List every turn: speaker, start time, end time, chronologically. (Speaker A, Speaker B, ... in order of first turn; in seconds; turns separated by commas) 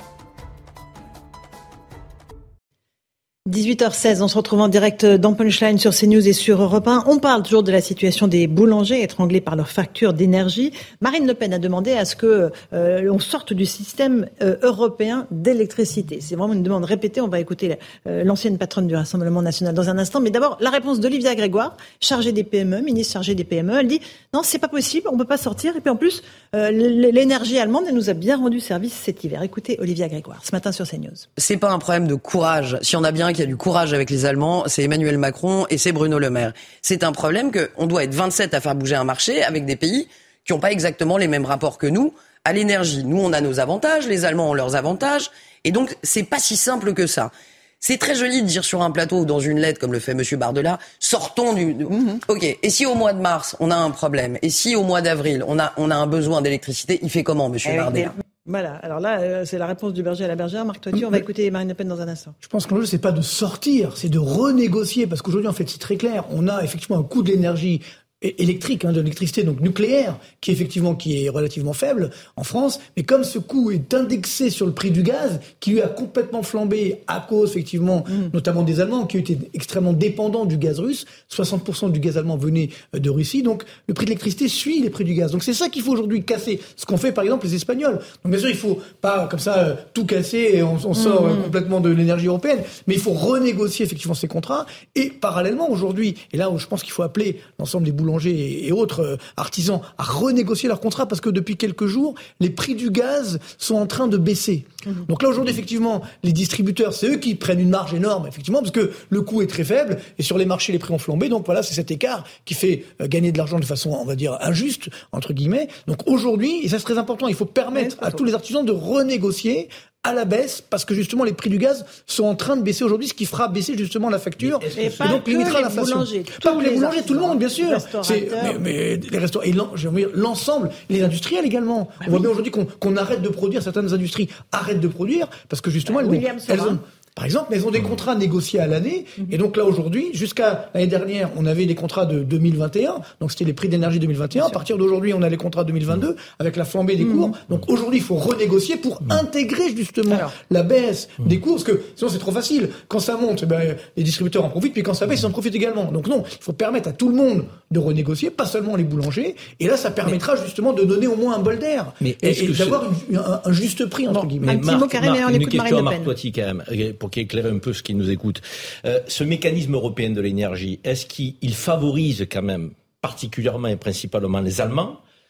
Speaker A: 3.5-31.3, Speaker B: 31.4-58.1, Speaker A: 51.9-52.2, Speaker A: 57.6-62.3, Speaker C: 60.9-61.2, Speaker C: 62.4-164.6, Speaker A: 91.0-91.5, Speaker A: 117.7-118.2, Speaker D: 124.4-125.2, Speaker A: 124.8-128.6, Speaker A: 135.8-136.8, Speaker A: 147.0-147.3, Speaker D: 162.0-162.8, Speaker A: 164.1-166.1, Speaker D: 164.4-175.0